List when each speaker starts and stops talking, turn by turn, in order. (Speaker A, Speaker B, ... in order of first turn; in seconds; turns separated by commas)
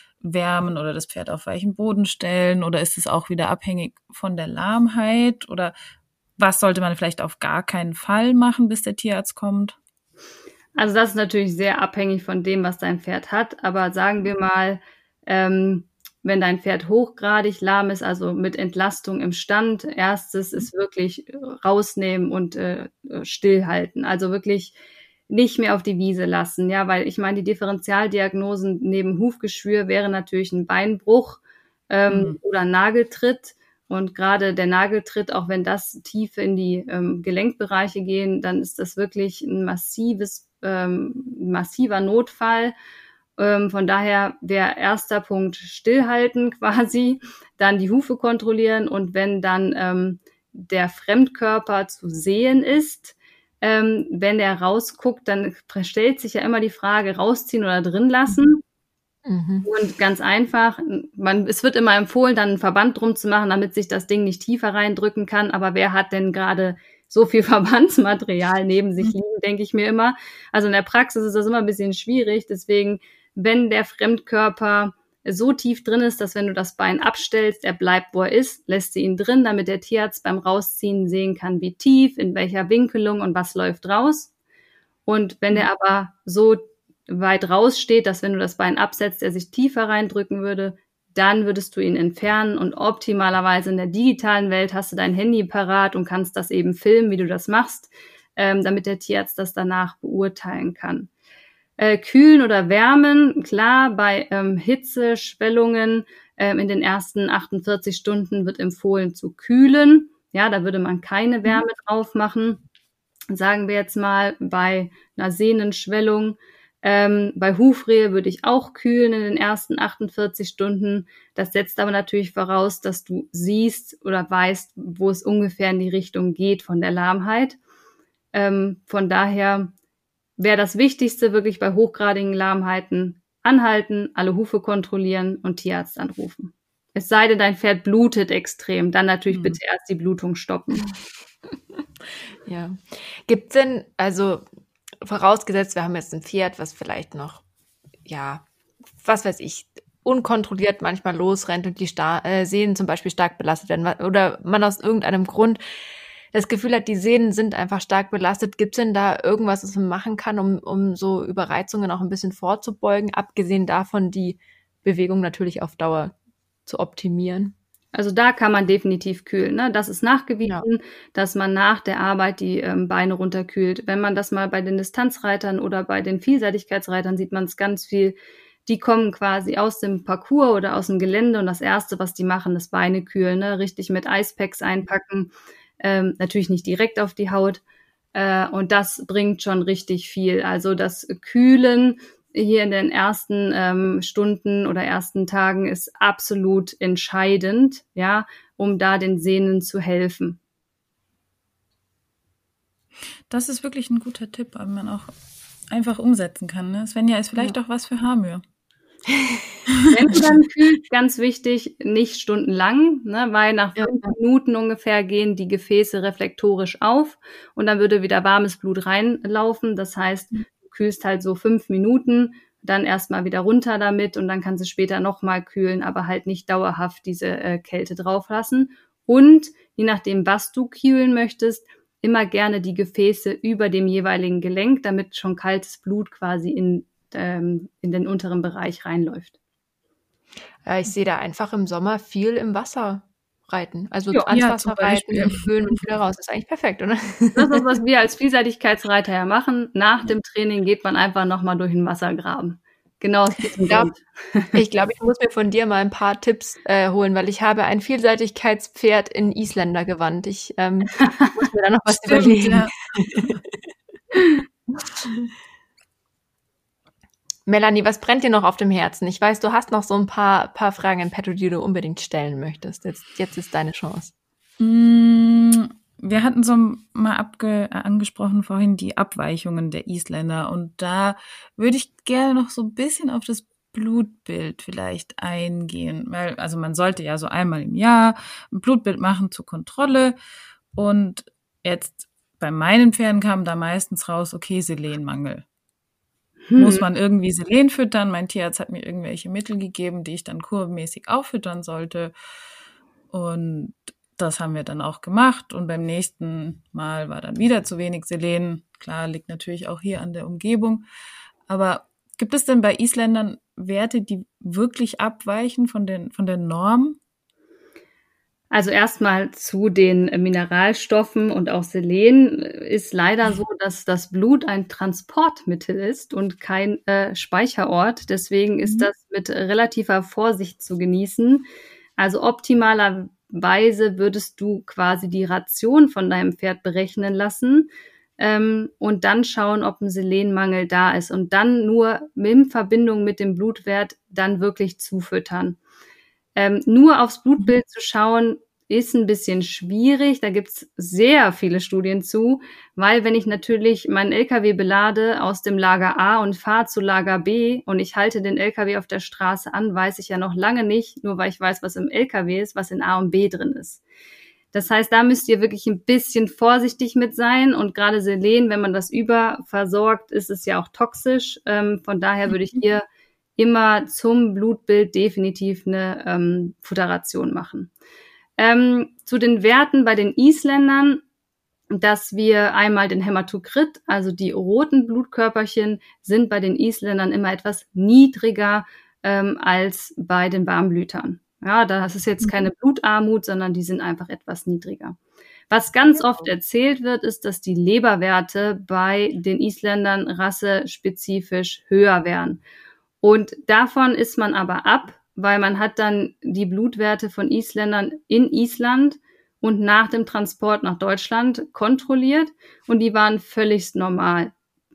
Speaker A: 0.2-5.7, Speaker A: 6.4-9.8, Speaker B: 10.8-24.8, Speaker B: 25.3-42.7, Speaker A: 32.1-32.4, Speaker B: 43.4-58.6, Speaker C: 59.2-59.7, Speaker B: 59.6-84.3, Speaker B: 85.0-101.1, Speaker B: 101.8-112.6, Speaker B: 113.3-127.6, Speaker B: 128.3-129.7, Speaker B: 130.4-140.9, Speaker A: 139.3-139.6, Speaker C: 142.4-144.4, Speaker C: 145.0-147.4, Speaker C: 148.0-148.4, Speaker C: 149.0-155.6, Speaker C: 156.3-166.1, Speaker C: 166.7-167.5, Speaker B: 167.9-187.6, Speaker B: 188.1-200.4, Speaker A: 203.3-205.1, Speaker A: 205.7-208.4, Speaker C: 209.1-209.6, Speaker B: 209.9-239.3, Speaker C: 213.8-214.1, Speaker C: 240.6-247.5, Speaker A: 244.3-245.7, Speaker B: 247.3-254.5, Speaker C: 253.7-253.9, Speaker C: 254.5-263.4, Speaker A: 261.9-262.7, Speaker C: 267.4-274.1, Speaker A: 274.6-290.1, Speaker A: 290.7-295.4, Speaker B: 296.5-296.8, Speaker A: 296.6-302.1, Speaker A: 303.1-310.9, Speaker A: 311.5-317.0, Speaker B: 318.5-331.4, Speaker A: 328.6-328.9, Speaker B: 332.0-345.6, Speaker B: 346.4-363.8, Speaker B: 364.5-372.8, Speaker B: 373.4-377.7, Speaker B: 378.4-381.0, Speaker B: 381.7-395.0, Speaker B: 395.5-402.4, Speaker B: 403.0-414.3